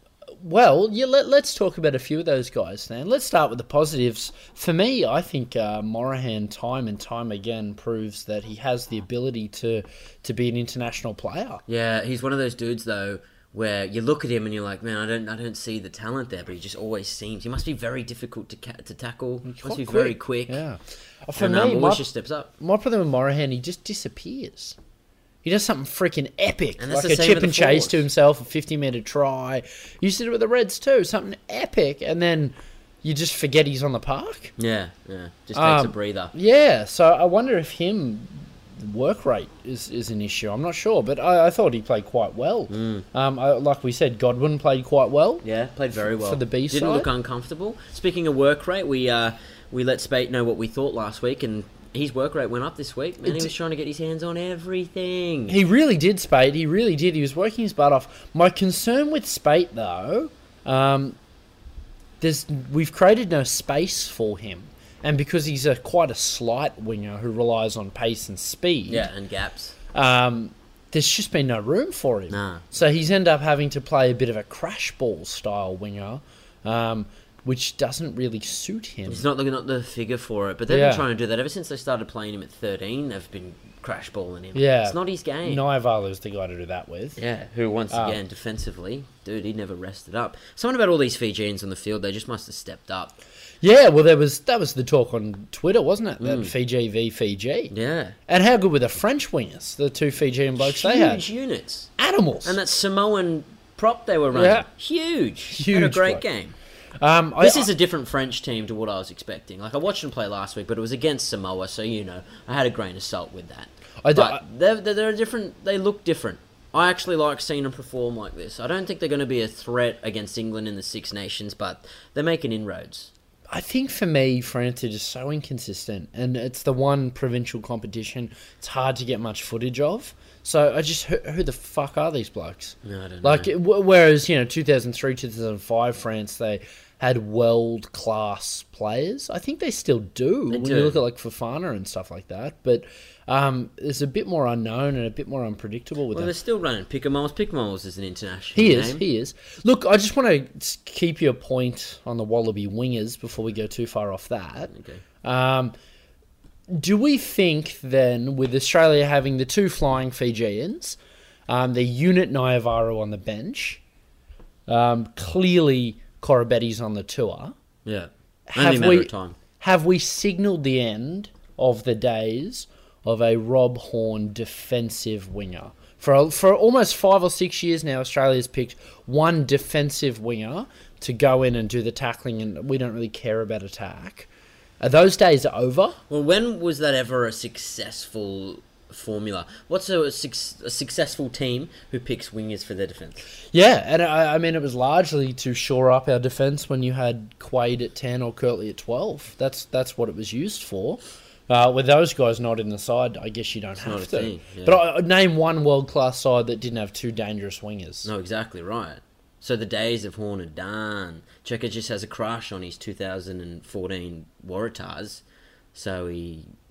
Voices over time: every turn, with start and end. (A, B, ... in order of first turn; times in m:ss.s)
0:00.4-0:11.6 A
0:11.7-0:20.6 B
0:19.4-0:22.0 A
0:21.4-0:22.5 B
0:22.6-0:24.8 A
0:25.4-0:34.5 A
0:26.8-0:28.0 B
0:34.6-0:36.3 B
0:35.6-0:45.4 A
0:42.7-0:43.0 B
0:45.4-0:55.6 B
0:46.2-0:47.1 A
0:53.2-0:53.5 A
0:55.5-1:01.2 A
1:02.2-1:09.1 A
1:08.9-1:09.8 B
1:09.9-1:19.2 A
1:12.3-1:12.7 B
1:19.1-1:25.6 B
1:20.7-1:21.0 A
1:24.5-1:27.2 A
1:27.2-1:33.2 B
1:27.9-1:28.2 A
1:33.6-1:37.7 A
1:36.2-1:36.5 B
1:37.7-1:38.2 B
1:38.3-1:41.2 A
1:40.6-1:41.9 B
1:42.0-1:42.6 A
1:42.4-1:46.5 B
1:44.3-1:44.7 A
1:45.5-1:46.2 A
1:47.0-1:47.7 A
1:47.4-2:03.1 B
1:54.0-1:54.4 A
2:03.5-2:26.3 A
2:12.8-2:13.5 B
2:20.5-2:21.0 B
2:26.1-2:29.0 B
2:28.5-2:35.7 A
2:34.7-2:35.0 B
2:36.7-2:43.8 A
2:44.7-2:47.5 A
2:47.8-2:49.4 B
2:48.5-3:04.3 A
3:04.8-3:06.0 A
3:06.1-3:13.2 B
3:13.5-3:28.1 A
3:23.8-3:24.8 B
3:28.0-3:35.2 B
3:35.7-3:36.4 B